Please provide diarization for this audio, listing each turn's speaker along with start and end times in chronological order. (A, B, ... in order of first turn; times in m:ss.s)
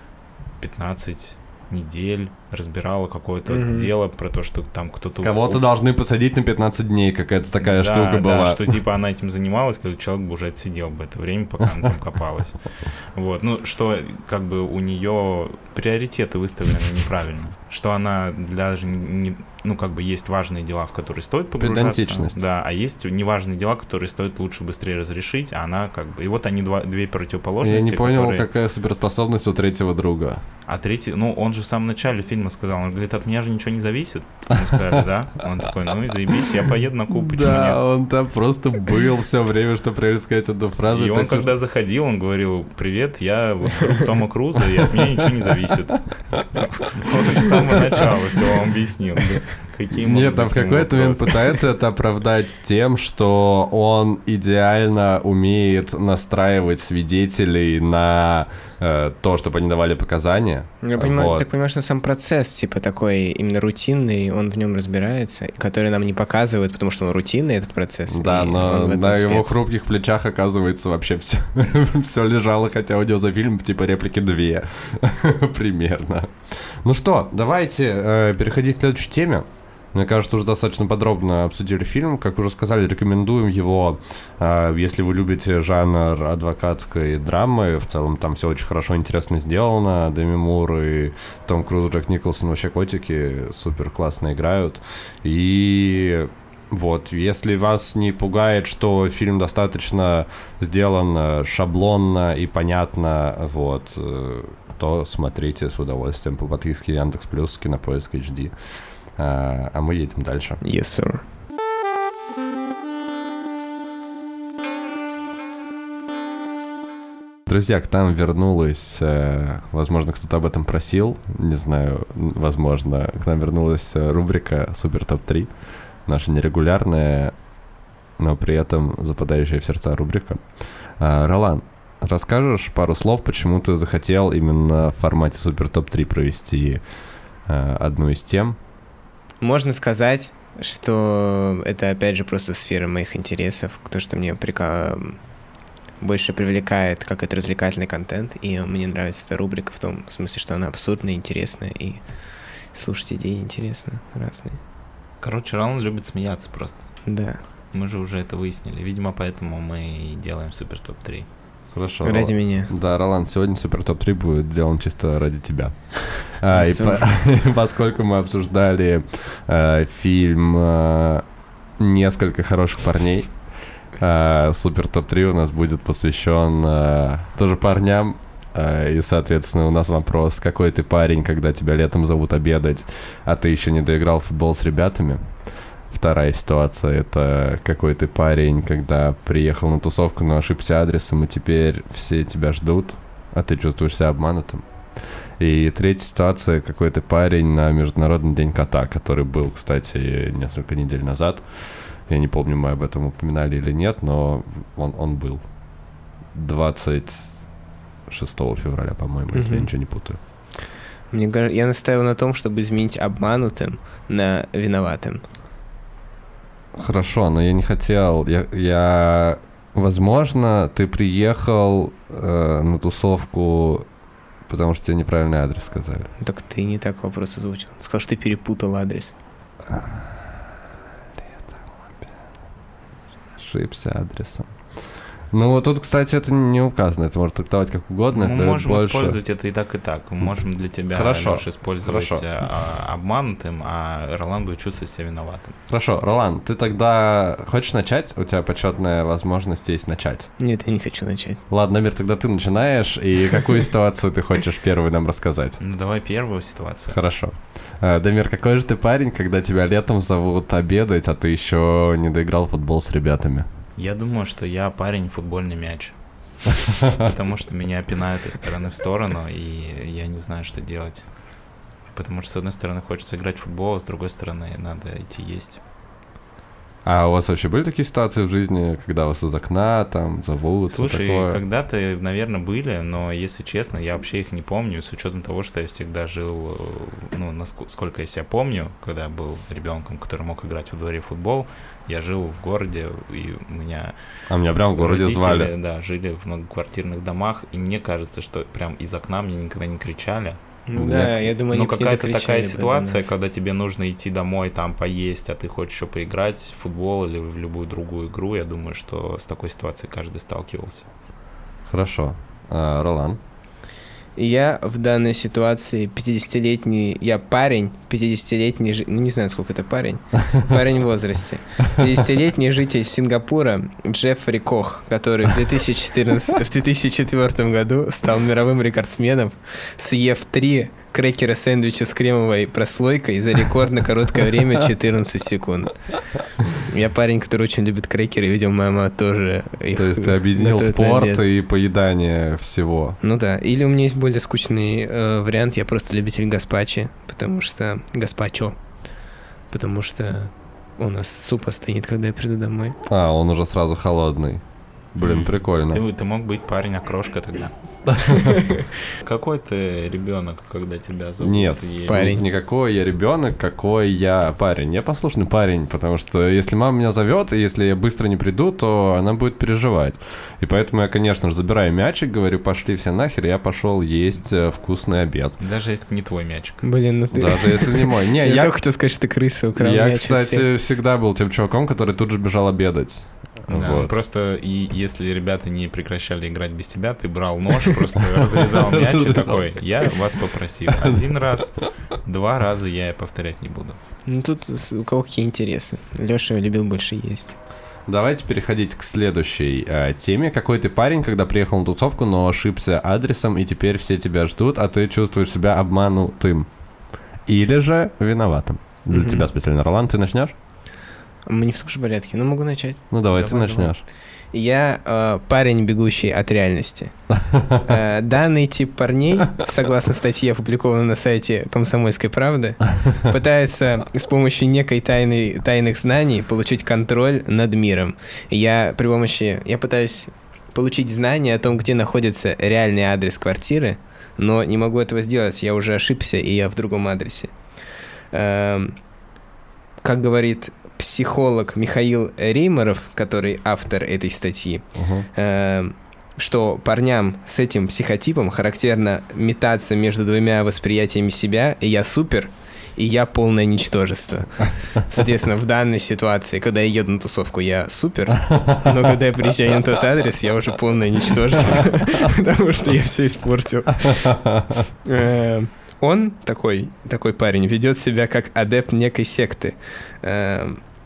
0:00.6-0:05.6 A
0:03.5-0:03.9 B
0:05.2-0:08.6 C
0:07.6-0:28.5 A
0:21.6-0:22.4 C
0:27.6-0:30.4 C
0:30.7-0:37.8 A
0:37.1-0:41.5 C
0:40.9-0:51.6 A
0:50.0-1:01.5 C
1:00.8-1:09.6 B
1:08.1-1:48.5 C
1:49.2-1:50.6 C
1:50.6-1:51.2 B
1:57.5-2:05.5 C
2:06.1-2:07.3 C
2:08.2-2:10.4 C
2:11.0-2:16.8 C
2:17.5-2:18.6 C
2:19.4-2:25.2 B
2:26.0-2:32.0 B
2:32.7-2:34.6 B
2:35.2-2:36.9 A
2:37.1-2:37.4 B
2:37.7-2:41.3 A
2:41.7-2:51.2 C
2:42.0-2:42.7 B
2:46.5-2:47.0 B
2:51.8-2:53.4 C
2:54.0-3:05.3 C
3:05.9-3:25.5 C
3:26.3-3:27.5 C
3:28.1-3:30.2 C
3:29.3-3:29.7 B
3:31.1-3:35.2 B
3:36.8-3:43.9 C
3:44.5-3:46.1 C
3:46.2-3:49.2 B
3:49.7-3:50.5 C
3:51.2-3:52.1 C
3:53.3-3:59.2 C
3:58.1-4:05.6 A
4:00.9-4:02.2 C
4:05.7-4:10.3 C
4:10.4-4:11.4 B
4:11.5-4:15.6 C
4:15.6-4:17.0 A
4:16.9-4:23.5 C
4:23.8-4:26.0 A
4:26.9-4:31.1 A
4:31.9-4:35.6 A
4:36.8-4:41.4 C
4:40.7-4:54.0 A
4:54.3-4:55.5 C
4:54.8-5:00.4 A
5:00.7-5:03.1 B
5:00.8-5:01.1 C
5:01.5-5:10.9 A
5:11.7-5:13.2 C
5:14.2-5:35.9 B
5:36.5-5:41.2 B
5:39.8-5:43.0 C
5:43.0-5:48.6 B
5:49.5-5:52.8 B
5:52.9-5:54.4 C
5:54.9-5:55.8 C
5:55.0-5:57.5 A
5:59.0-6:02.2 A
6:01.2-6:15.4 C
6:01.9-6:02.2 B
6:15.4-6:16.7 A
6:16.6-6:20.5 B
6:17.1-6:18.6 C
6:19.6-6:23.9 C
6:23.5-6:33.8 A
6:28.6-6:29.5 C
6:30.7-6:31.0 C
6:34.1-6:37.3 B
6:37.9-6:46.5 C
6:47.3-6:50.3 C
6:48.9-6:49.2 B
6:51.3-6:53.7 B
6:52.9-6:53.8 C
6:54.3-6:56.9 B
6:57.3-6:57.6 C
6:57.6-7:17.3 B
7:18.1-7:18.8 B
7:19.8-7:44.3 B
7:24.8-7:25.1 C
7:44.0-7:44.6 C
7:44.8-7:50.6 B